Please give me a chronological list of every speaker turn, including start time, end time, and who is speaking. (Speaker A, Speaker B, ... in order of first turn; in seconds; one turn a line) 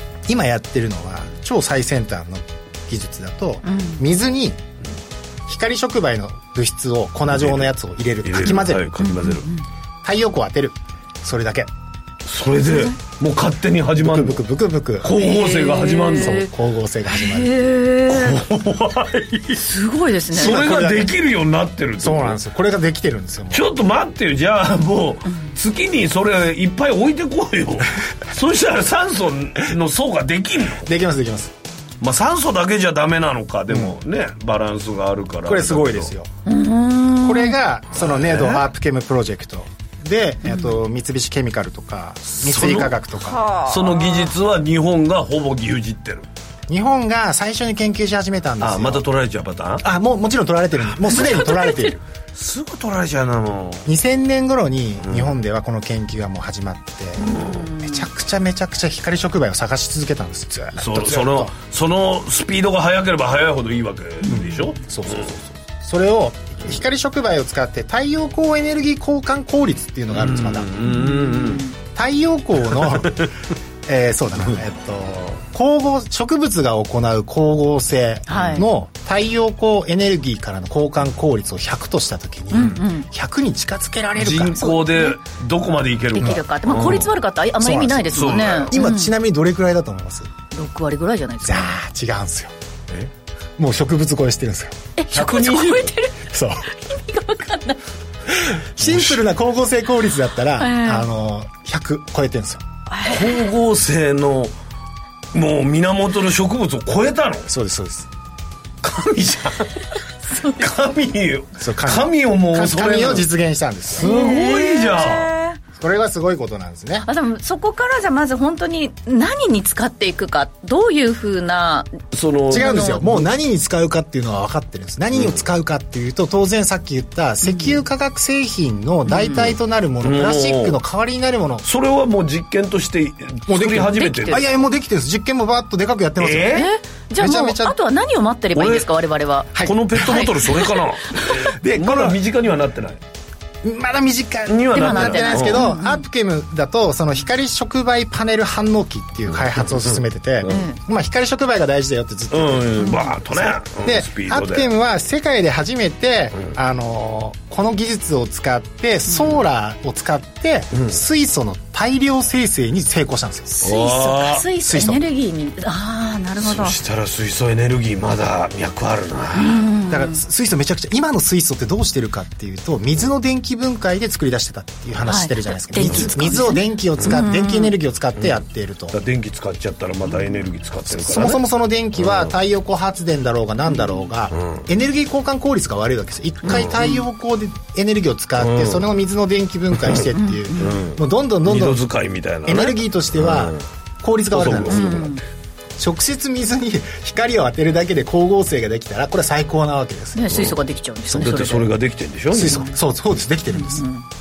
Speaker A: 0.3-4.6
Speaker B: 3.7-4.0
Speaker A: 5.5-8.9
Speaker C: 7.3-7.7
Speaker C: 8.2-9.5
Speaker B: 9.0-9.6
Speaker A: 10.0-11.7
Speaker C: 12.3-14.4
Speaker A: 14.0-15.1
Speaker C: 15.0-16.4
Speaker B: 15.1-16.5
Speaker A: 16.2-17.6
Speaker B: 17.2-18.3
Speaker C: 18.1-19.6
Speaker B: 19.6-21.0
Speaker C: 20.3-22.4
Speaker A: 20.4-21.1
Speaker A: 22.0-23.7
Speaker C: 23.5-30.9
Speaker A: 30.8-31.5
Speaker C: 32.0-36.1
Speaker A: 33.7-34.0
Speaker A: 35.5-36.3
Speaker B: 36.5-37.5
Speaker A: 37.2-43.4
Speaker C: 38.0-38.6
Speaker C: 42.4-43.0
Speaker B: 43.3-44.2
Speaker C: 43.7-46.3
Speaker A: 46.7-49.0
Speaker C: 48.6-49.9
Speaker A: 49.8-52.0
Speaker C: 52.4-53.9
Speaker A: 53.9-61.5
Speaker C: 55.0-55.3
Speaker C: 57.2-57.6
Speaker B: 57.4-57.9
Speaker C: 60.8-65.3
Speaker A: 64.3-70.7
Speaker C: 70.1-71.6
Speaker B: 71.1-71.7
Speaker A: 72.0-73.3
Speaker A: 73.9-84.7
Speaker B: 78.3-78.6
Speaker C: 78.3-78.6
Speaker B: 82.5-83.1
Speaker C: 84.2-87.2
Speaker B: 84.6-85.2
Speaker B: 86.2-89.1
Speaker A: 87.6-90.3
Speaker C: 88.1-88.8
Speaker B: 90.5-91.8
Speaker A: 91.4-92.5
Speaker A: 93.6-94.8
Speaker B: 95.0-96.1
Speaker C: 95.1-95.9
Speaker A: 96.3-96.7
Speaker B: 96.9-97.8
Speaker A: 98.3-102.6
Speaker C: 98.8-99.2
Speaker B: 100.6-101.1
Speaker B: 102.9-103.2
Speaker C: 103.0-104.5
Speaker C: 105.3-107.5
Speaker A: 107.5-108.1
Speaker C: 108.8-109.9
Speaker B: 110.3-110.7
Speaker C: 110.4-113.3
Speaker A: 111.6-114.1
Speaker C: 114.0-115.3
Speaker B: 114.0-115.5
Speaker A: 115.7-117.1
Speaker B: 117.1-121.9
Speaker C: 122.1-123.0
Speaker A: 122.5-131.7
Speaker B: 122.6-123.1
Speaker C: 125.1-125.4
Speaker B: 127.4-127.7
Speaker B: 129.1-129.4
Speaker C: 129.3-130.8
Speaker C: 131.6-134.6
Speaker A: 133.5-136.7
Speaker B: 134.0-134.4
Speaker C: 136.2-136.7
Speaker B: 136.6-139.5
Speaker A: 137.2-137.8
Speaker C: 138.6-138.9
Speaker A: 139.5-140.3
Speaker C: 139.6-143.0
Speaker A: 141.6-142.2
Speaker A: 143.6-163.7
Speaker C: 144.5-145.7
Speaker B: 144.7-146.1
Speaker C: 149.3-150.7
Speaker B: 150.5-150.8
Speaker C: 152.3-154.7
Speaker B: 152.8-153.2
Speaker C: 160.7-161.0
Speaker C: 163.6-164.5
Speaker B: 163.6-166.8
Speaker A: 164.6-165.0
Speaker C: 166.4-169.6
Speaker B: 169.4-170.2
Speaker A: 169.9-179.0
Speaker B: 175.1-177.7
Speaker C: 175.8-176.3
Speaker C: 178.9-181.4
Speaker A: 180.9-191.8
Speaker C: 182.0-182.3
Speaker C: 184.3-184.6
Speaker C: 186.4-186.8
Speaker C: 188.4-188.8
Speaker C: 189.8-193.6
Speaker B: 190.2-190.8
Speaker A: 192.4-195.1
Speaker C: 194.3-195.2
Speaker B: 194.7-195.2
Speaker A: 195.8-200.5
Speaker B: 200.2-201.7
Speaker C: 200.3-200.6
Speaker C: 201.1-202.7
Speaker A: 202.3-203.8
Speaker B: 203.5-204.0